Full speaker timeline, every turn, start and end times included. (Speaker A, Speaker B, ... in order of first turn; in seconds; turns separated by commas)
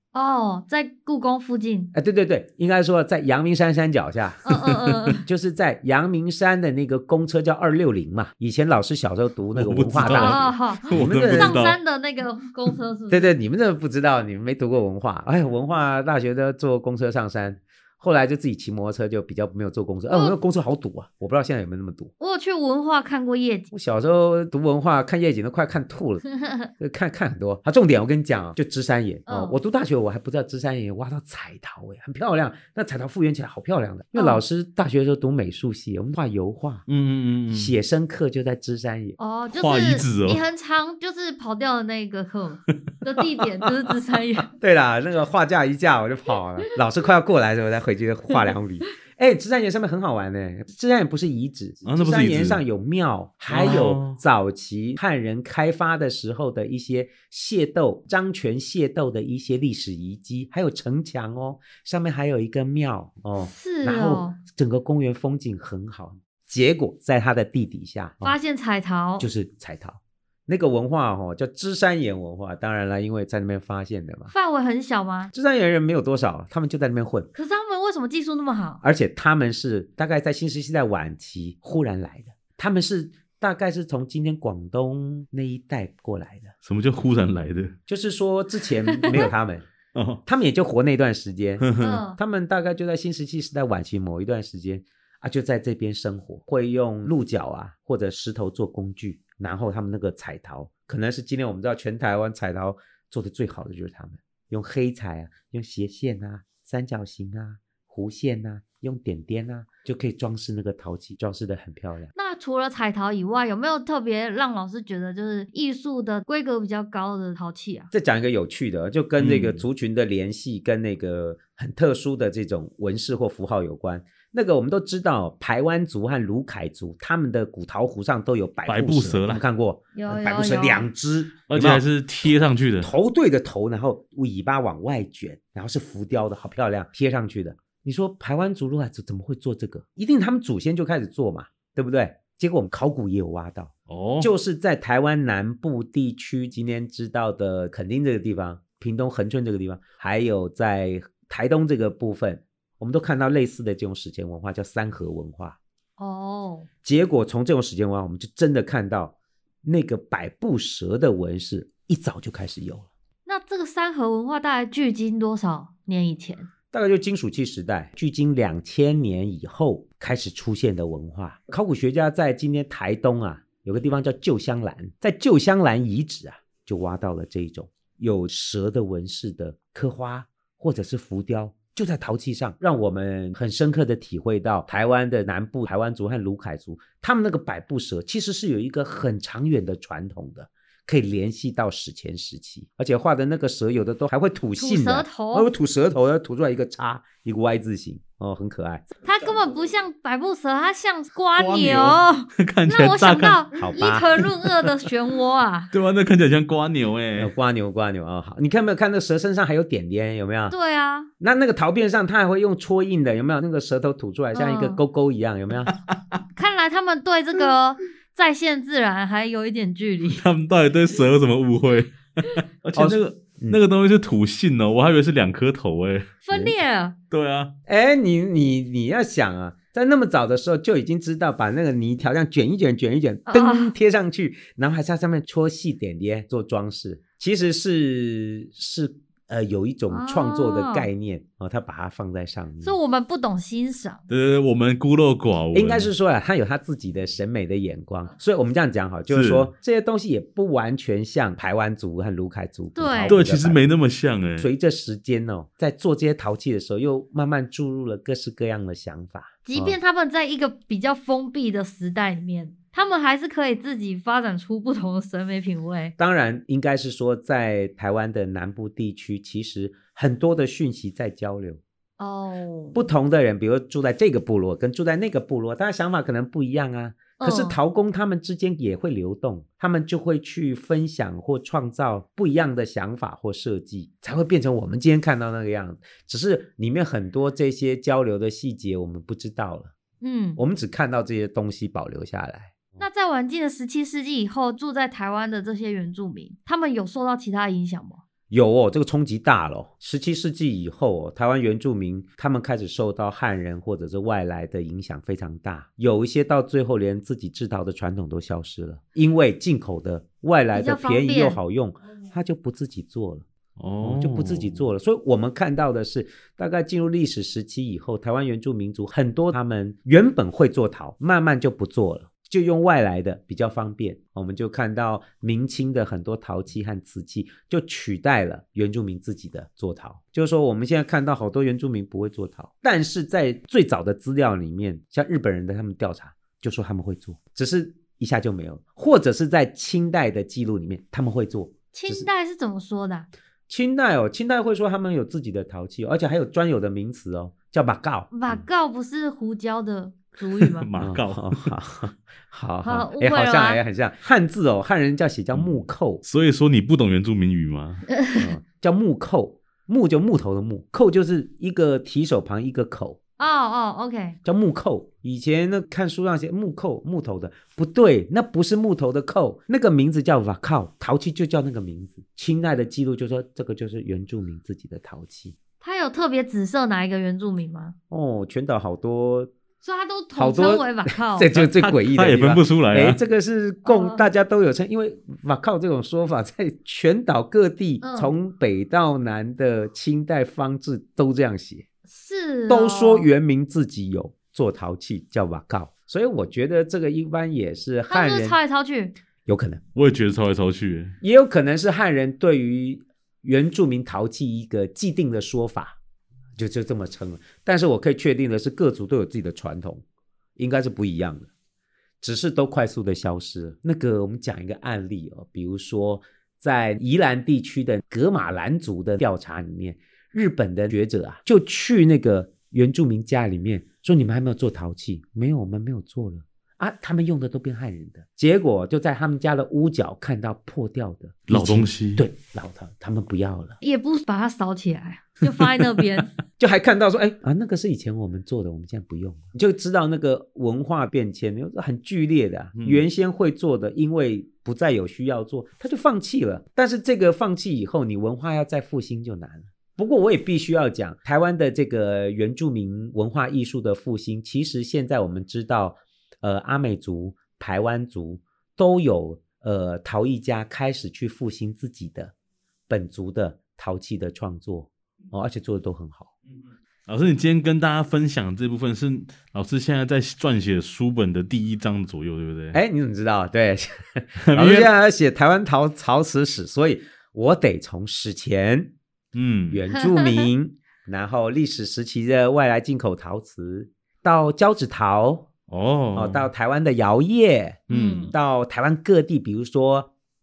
Speaker A: 0.1-1.9, Speaker B: 1.9-4.6, Speaker A: 4.4-5.2, Speaker B: 5.2-11.7, Speaker C: 9.5-11.8, Speaker A: 10.0-13.3, Speaker B: 13.1-22.1, Speaker A: 20.1-20.4, Speaker A: 22.2-23.7, Speaker B: 23.7-26.2, Speaker A: 26.4-26.7, Speaker B: 26.8-36.8, Speaker A: 29.3-29.6, Speaker A: 34.1-34.4, Speaker C: 36.9-37.7, Speaker B: 37.5-39.2, Speaker A: 39.2-44.5, Speaker C: 39.5-40.4, Speaker B: 44.5-68.3, Speaker C: 51.9-52.6, Speaker C: 53.5-54.2, Speaker A: 63.4-64.4, Speaker A: 68.2-69.3, Speaker B: 69.2-74.3, Speaker A: 74.3-75.3, Speaker B: 75.3-77.3, Speaker A: 77.3-78.8, Speaker B: 78.8-86.5, Speaker C: 86.6-87.7, Speaker B: 87.9-89.7, Speaker C: 89.9-90.2, Speaker B: 90.2-112.1, Speaker C: 91.6-92.0, Speaker A: 91.8-92.2, Speaker A: 112.1-117.9, Speaker B: 117.9-155.6, Speaker C: 119.2-119.6, Speaker C: 128.7-129.4, Speaker A: 129.9-130.9, Speaker C: 131.5-132.9, Speaker C: 143.9-144.3, Speaker A: 156.0-156.7, Speaker B: 156.8-162.9, Speaker A: 163.2-166.5, Speaker B: 166.7-198.8, Speaker A: 194.6-195.5, Speaker A: 199.0-205.7, Speaker C: 201.3-204.9, Speaker B: 203.5-204.1, Speaker C: 205.7-207.3, Speaker B: 207.2-210.6, Speaker A: 210.5-211.1, Speaker B: 211.2-215.7, Speaker A: 214.3-214.8, Speaker A: 216.3-220.2, Speaker C: 220.1-226.5, Speaker B: 222.7-223.6, Speaker A: 226.2-226.9, Speaker C: 227.1-227.5, Speaker B: 227.7-242.8, Speaker A: 233.3-233.7, Speaker A: 239.9-240.9, Speaker A: 242.6-244.0, Speaker C: 244.1-245.9, Speaker B: 245.5-253.6, Speaker C: 249.1-249.5, Speaker A: 252.7-253.2, Speaker C: 253.1-254.5, Speaker B: 254.4-259.8, Speaker A: 259.4-265.9, Speaker B: 266.0-271.6, Speaker A: 272.0-272.9, Speaker B: 272.7-289.7, Speaker A: 277.2-277.6, Speaker A: 290.0-290.4, Speaker B: 290.4-292.7, Speaker A: 292.8-298.0, Speaker B: 298.3-313.3, Speaker A: 310.5-311.4, Speaker C: 313.6-314.6, Speaker B: 313.8-342.1, Speaker A: 341.7-343.1, Speaker B: 343.5-348.4, Speaker A: 348.1-350.7, Speaker C: 350.4-351.5, Speaker B: 350.8-356.0, Speaker A: 352.6-353.6, Speaker C: 355.3-357.9, Speaker A: 357.9-358.3, Speaker B: 358.1-363.0, Speaker A: 363.2-364.2, Speaker B: 364.2-375.4, Speaker A: 375.6-377.7, Speaker B: 377.9-379.3, Speaker A: 379.6-381.3, Speaker B: 380.1-391.6, Speaker C: 381.3-383.0, Speaker A: 383.6-384.0, Speaker A: 387.8-388.1, Speaker A: 391.9-393.1, Speaker B: 392.5-398.4, Speaker A: 397.9-398.9, Speaker B: 399.2-399.6, Speaker C: 399.7-400.9, Speaker B: 401.0-405.8, Speaker B: 406.4-409.8, Speaker B: 410.4-411.3, Speaker B: 412.0-433.6, Speaker C: 431.3-432.1, Speaker A: 433.6-436.1, Speaker C: 435.2-435.9, Speaker B: 436.4-462.1, Speaker C: 442.6-442.8, Speaker B: 462.7-466.1, Speaker C: 466.9-472.6, Speaker B: 472.5-478.7, Speaker C: 474.2-474.7, Speaker C: 479.1-479.6, Speaker B: 479.5-485.3, Speaker A: 480.0-480.3, Speaker C: 485.5-486.3, Speaker B: 485.9-489.9, Speaker A: 487.7-488.1, Speaker C: 487.7-488.1